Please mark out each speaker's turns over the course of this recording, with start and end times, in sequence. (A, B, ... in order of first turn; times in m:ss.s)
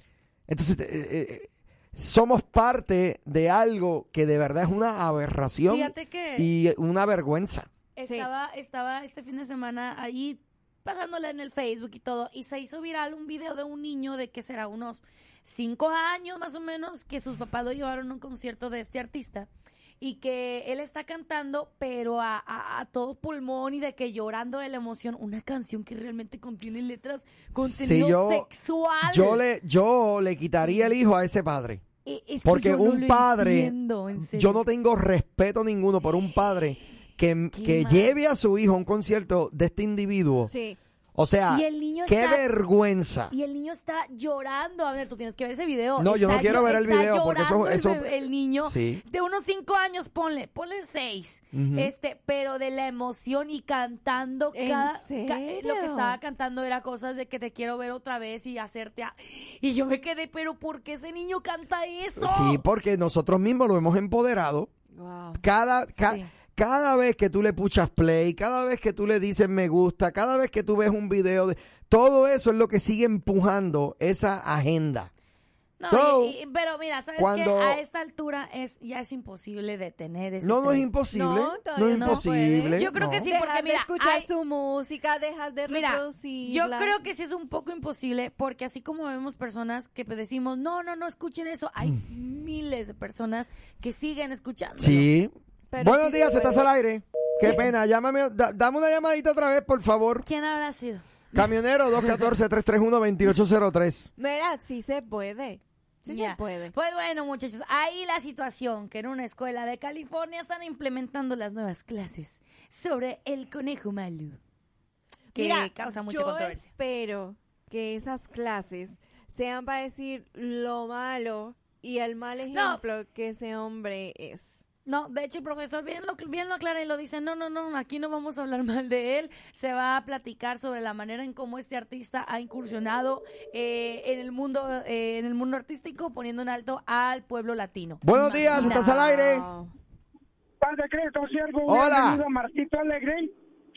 0:00.5-0:07.7 A
0:05.7-0:06.5 B
0:08.0-0:19.5 B
0:20.0-0:29.4 B
0:27.6-0:28.5 A
0:29.0-0:31.8 A
0:30.6-0:30.9 B
0:32.0-0:34.6 B
0:32.4-0:40.5 A
0:37.5-0:38.2 B
0:40.5-0:40.8 C
0:41.2-0:43.4 A
0:41.5-0:42.5 B
0:43.3-1:02.6 B
0:46.0-0:49.0 A
0:51.5-0:51.9 A
0:54.5-0:56.2 C
1:02.2-1:04.7 A
1:05.0-1:05.4 C
1:05.4-1:15.1 A
1:06.0-1:06.3 B
1:15.8-1:20.9 B
1:15.9-1:16.4 A
1:17.2-1:17.8 A
1:20.4-1:23.3 A
1:21.1-1:27.0 C
1:21.9-1:24.3 B
1:25.7-1:35.1 B
1:34.8-1:40.2 A
1:35.7-1:36.7 C
1:40.2-1:41.0 B
1:41.3-1:44.1 A
1:44.2-1:46.7 C
1:46.1-1:54.4 B
1:55.4-1:56.7 B
1:55.4-2:04.6 C
2:02.5-2:02.8 B
2:04.9-2:19.0 B
2:18.0-2:19.5 A
2:18.2-2:19.7 C
2:20.6-2:23.3 D
2:21.7-2:22.2 A